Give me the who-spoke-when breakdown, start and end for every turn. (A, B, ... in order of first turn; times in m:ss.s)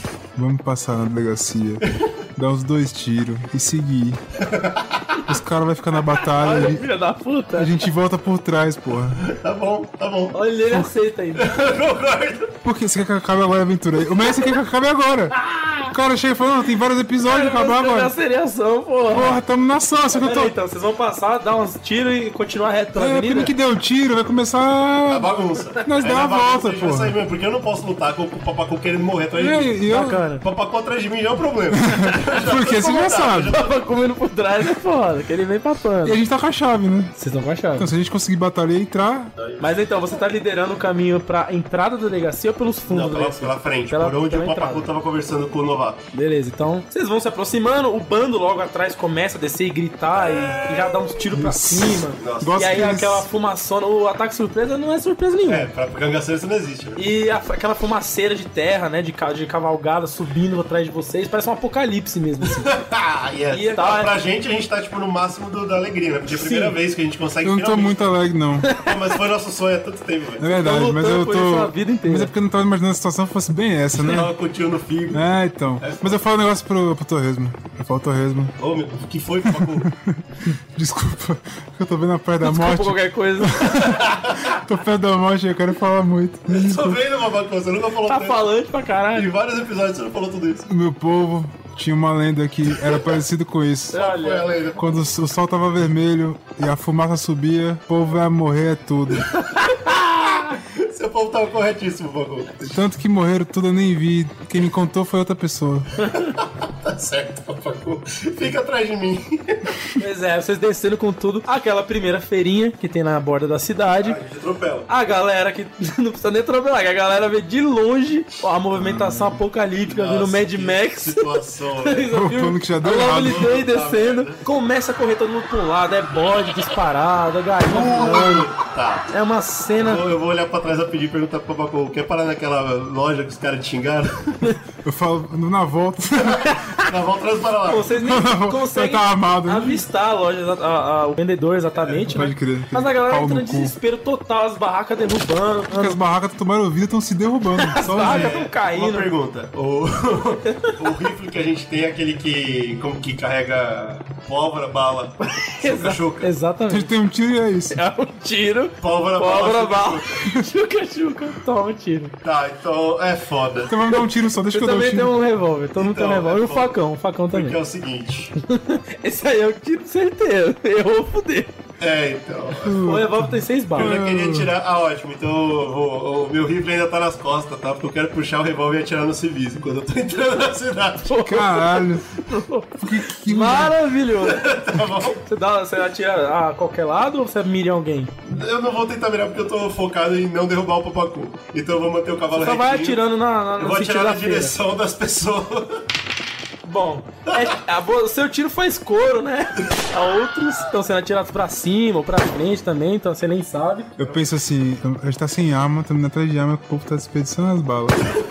0:00.3-0:04.2 A
0:01.8-0:02.1 B
0:04.4-0:05.2 B
0:05.3-0:06.8 A
0:06.4-0:07.8 C
0:07.5-0:09.2 A
0:09.2-0:10.4 B
0:10.3-0:11.5 C
0:11.4-0:12.5 B
0:12.6-0:15.4 A
0:15.3-0:15.9 C
0:15.9-0:18.1 A
0:17.2-0:19.4 C
0:19.1-0:20.5 A
0:20.1-0:23.5 C
0:23.0-0:27.2 A
0:25.1-0:29.8 B
0:29.3-0:30.2 A
0:29.8-0:30.4 C
0:30.4-0:33.7 B
0:31.7-0:33.6 A
0:32.0-0:32.4 C
0:33.5-0:36.2 C
0:36.0-0:37.1 A
0:37.2-0:37.9 C
0:37.8-0:39.3 A
0:39.3-0:40.2 B
0:39.6-0:44.9 C
0:42.9-0:46.0 B
0:46.1-0:55.7 C
0:50.1-0:51.2 B
0:51.3-0:53.3 A
0:52.2-0:52.7 B
0:55.5-0:57.0 B
0:57.0-1:02.7 C
1:02.5-1:08.1 B
1:03.5-1:04.1 C
1:06.4-1:06.7 C
1:07.4-1:08.7 A
1:08.6-1:08.9 C
1:08.7-1:10.5 B
1:10.4-1:14.3 A
1:10.5-1:12.3 C
1:14.0-1:15.3 B
1:15.1-1:18.5 A
1:15.8-1:16.2 B
1:18.6-1:19.9 B
1:19.4-1:27.0 A
1:22.4-1:24.0 C
1:23.7-1:24.6 B
1:26.5-1:28.4 B
1:28.1-1:29.3 C
1:29.1-1:30.7 B
1:30.7-1:34.0 A
1:33.9-1:34.5 C
1:33.9-1:34.9 B
1:34.8-1:39.3 A
1:39.4-1:40.4 C
1:40.7-1:42.6 B
1:42.6-1:45.9 A
1:46.1-1:49.8 B
1:50.0-1:54.2 C
1:53.9-1:54.9 B
1:54.9-2:08.5 C
1:58.7-1:59.4 A
1:59.8-2:02.1 B
2:02.1-2:03.6 A
2:03.1-2:04.4 B
2:07.6-2:09.1 B
2:08.0-2:08.5 A
2:09.1-2:10.0 C
2:09.8-2:14.5 B
2:14.8-2:16.6 A
2:16.2-2:17.9 B
2:17.6-2:26.0 C
2:18.0-2:19.8 A
2:21.8-2:22.1 B
2:22.1-2:23.7 A
2:25.7-2:28.4 A
2:27.6-2:29.1 C
2:27.8-2:36.3 B
2:35.3-2:36.9 C
2:36.7-2:37.8 A
2:37.7-2:42.1 C
2:38.8-2:40.3 B
2:42.2-2:43.7 B
2:43.7-2:45.2 A
2:43.9-2:47.6 C
2:45.8-2:46.8 B
2:47.3-2:48.3 B
2:48.4-2:51.5 C
2:51.8-2:53.0 B
2:52.6-2:54.5 A
2:52.8-2:54.0 C
2:53.8-3:01.2 B
3:01.1-3:04.5 C
3:01.2-3:02.1 A
3:02.8-3:03.8 A
3:04.2-3:05.2 B
3:05.2-3:08.1 C
3:08.2-3:13.0 B
3:12.3-3:14.5 C
3:13.6-3:15.8 B
3:16.6-3:23.9 C
3:24.0-3:28.1 A